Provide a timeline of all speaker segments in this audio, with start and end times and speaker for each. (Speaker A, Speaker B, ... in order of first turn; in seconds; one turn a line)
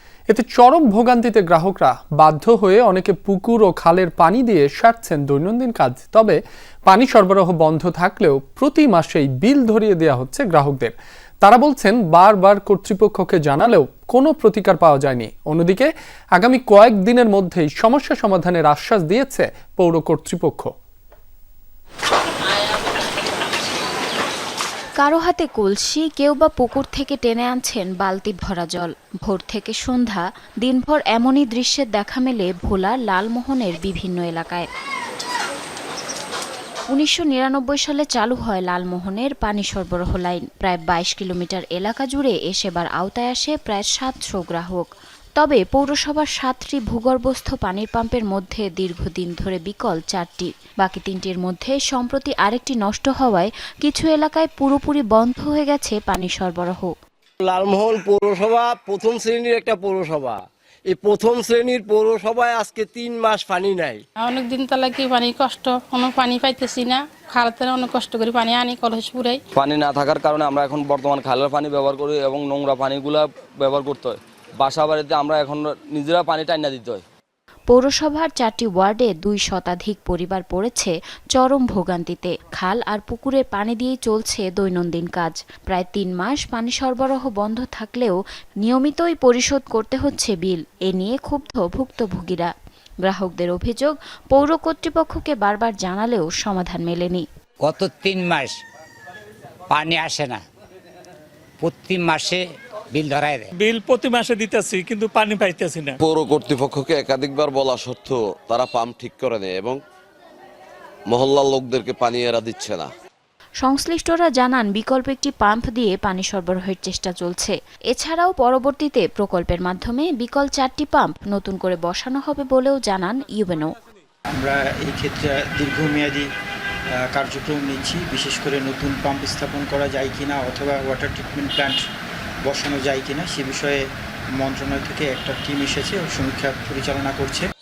Speaker A: 0.3-20.7
Speaker B: 25.0-34.7
Speaker B: 36.9-44.9
Speaker B: 45.4-56.9
Speaker C: 57.5-60.4
Speaker C: 60.9-64.0
Speaker D: 64.2-69.4
Speaker E: 69.6-77.0
Speaker B: 77.7-92.5
Speaker B: 93.0-97.2
Speaker F: 97.6-98.6
Speaker F: 99.7-100.4
Speaker F: 101.6-103.5
Speaker G: 103.6-106.0
Speaker H: 106.0-109.8
Speaker H: 111.1-112.9
Speaker B: 113.6-123.8
Speaker I: 124.4-126.3
Speaker I: 127.1-131.8
Speaker I: 132.5-133.8
Speaker I: 134.4-137.5